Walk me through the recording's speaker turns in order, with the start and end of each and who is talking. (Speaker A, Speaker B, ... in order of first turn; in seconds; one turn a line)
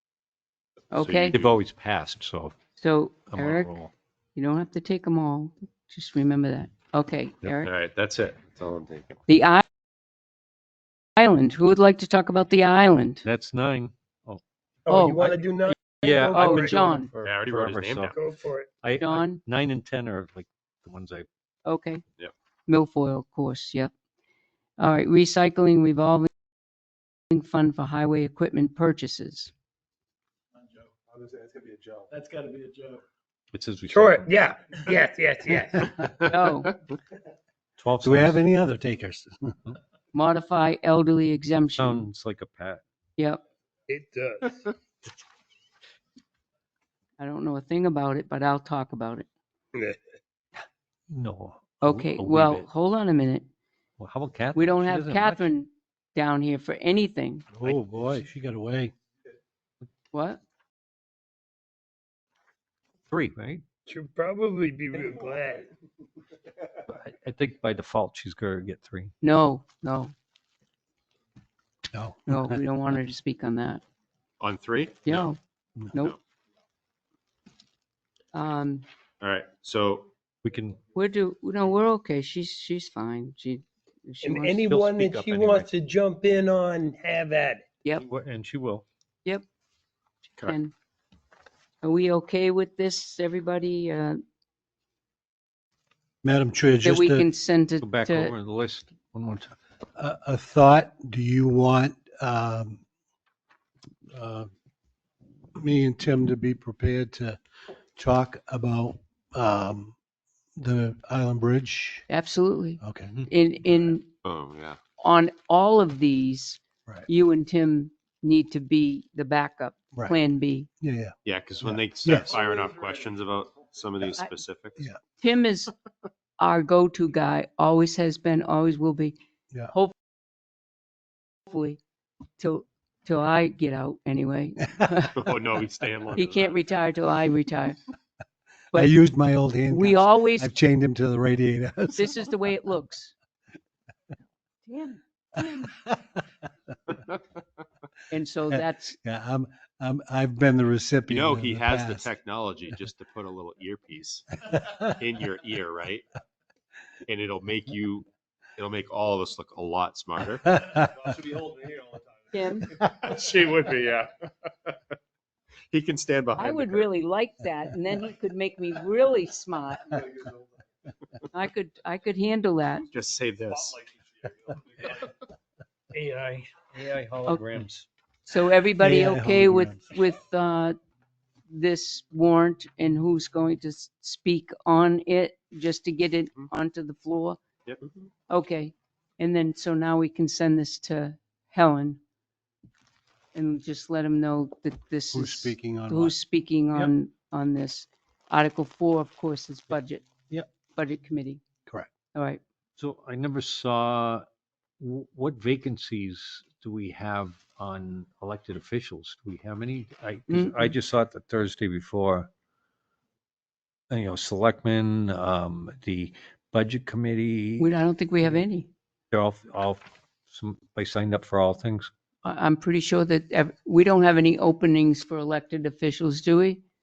Speaker A: 0.9-1.4
Speaker B: 1.0-1.5
Speaker C: 1.3-2.6
Speaker A: 2.8-3.7
Speaker C: 3.3-3.9
Speaker A: 4.4-7.7
Speaker B: 7.6-9.2
Speaker A: 9.3-9.6
Speaker A: 11.2-13.2
Speaker C: 13.2-14.4
Speaker D: 14.9-16.8
Speaker A: 14.9-15.4
Speaker C: 15.8-18.1
Speaker A: 16.3-17.1
Speaker B: 17.2-18.3
Speaker D: 18.1-18.7
Speaker C: 18.8-21.3
Speaker A: 19.0-19.4
Speaker A: 21.7-22.0
Speaker A: 22.7-23.9
Speaker A: 24.8-26.3
Speaker A: 27.3-29.5
Speaker E: 30.6-33.0
Speaker C: 33.5-34.3
Speaker D: 33.9-35.8
Speaker B: 35.6-36.1
Speaker A: 36.0-36.8
Speaker C: 37.8-38.4
Speaker F: 38.0-39.7
Speaker A: 40.1-42.0
Speaker C: 41.8-42.8
Speaker D: 43.9-44.5
Speaker A: 47.2-49.3
Speaker D: 49.7-50.0
Speaker C: 51.1-52.6
Speaker A: 51.8-53.5
Speaker C: 54.0-55.5
Speaker A: 54.5-57.5
Speaker F: 57.5-58.9
Speaker C: 57.6-58.0
Speaker A: 60.1-60.4
Speaker C: 63.1-63.6
Speaker D: 63.9-65.7
Speaker C: 66.9-69.1
Speaker A: 69.2-70.1
Speaker F: 71.9-72.5
Speaker A: 72.3-73.8
Speaker B: 74.4-75.3
Speaker A: 75.1-75.4
Speaker A: 78.3-78.9
Speaker B: 79.2-80.1
Speaker C: 80.4-80.8
Speaker A: 80.9-84.7
Speaker D: 84.2-87.7
Speaker C: 84.7-85.7
Speaker C: 87.9-88.8
Speaker A: 90.4-90.7
Speaker A: 91.8-94.2
Speaker F: 96.2-97.3
Speaker A: 96.8-98.3
Speaker C: 97.8-99.5
Speaker F: 100.0-102.8
Speaker F: 104.1-104.5
Speaker F: 105.6-107.4
Speaker F: 108.0-110.0
Speaker F: 110.6-112.1
Speaker A: 112.1-114.1
Speaker F: 112.8-113.3
Speaker B: 114.2-114.8
Speaker A: 115.0-120.7
Speaker F: 120.8-121.1
Speaker B: 121.2-124.8
Speaker F: 122.0-122.4
Speaker E: 122.3-122.7
Speaker A: 125.2-125.7
Speaker A: 126.4-129.2
Speaker A: 131.5-131.8
Speaker A: 132.4-135.2
Speaker B: 135.1-136.6
Speaker A: 136.1-137.8
Speaker F: 138.7-142.3
Speaker A: 139.7-140.5
Speaker A: 141.9-143.1
Speaker A: 144.7-145.0
Speaker F: 145.4-146.2
Speaker A: 148.1-149.0
Speaker F: 148.9-152.1
Speaker B: 151.1-156.1
Speaker B: 157.1-158.1
Speaker B: 158.6-160.7
Speaker E: 160.7-162.4
Speaker A: 162.3-162.8
Speaker B: 162.7-164.8
Speaker B: 165.7-166.9
Speaker A: 166.4-170.0
Speaker E: 169.9-170.5
Speaker A: 171.3-172.9
Speaker B: 172.9-173.8
Speaker E: 173.9-175.0
Speaker C: 175.9-177.9
Speaker A: 177.3-177.6
Speaker A: 178.3-180.8
Speaker F: 178.8-179.8
Speaker A: 181.5-187.4
Speaker A: 188.3-192.0
Speaker A: 193.3-200.0
Speaker F: 195.1-196.2
Speaker A: 200.7-201.4
Speaker A: 202.2-202.4
Speaker C: 202.8-204.3
Speaker C: 204.8-212.3
Speaker A: 210.3-210.7
Speaker C: 213.9-217.7
Speaker A: 217.6-218.7
Speaker C: 219.1-221.9
Speaker A: 222.2-226.6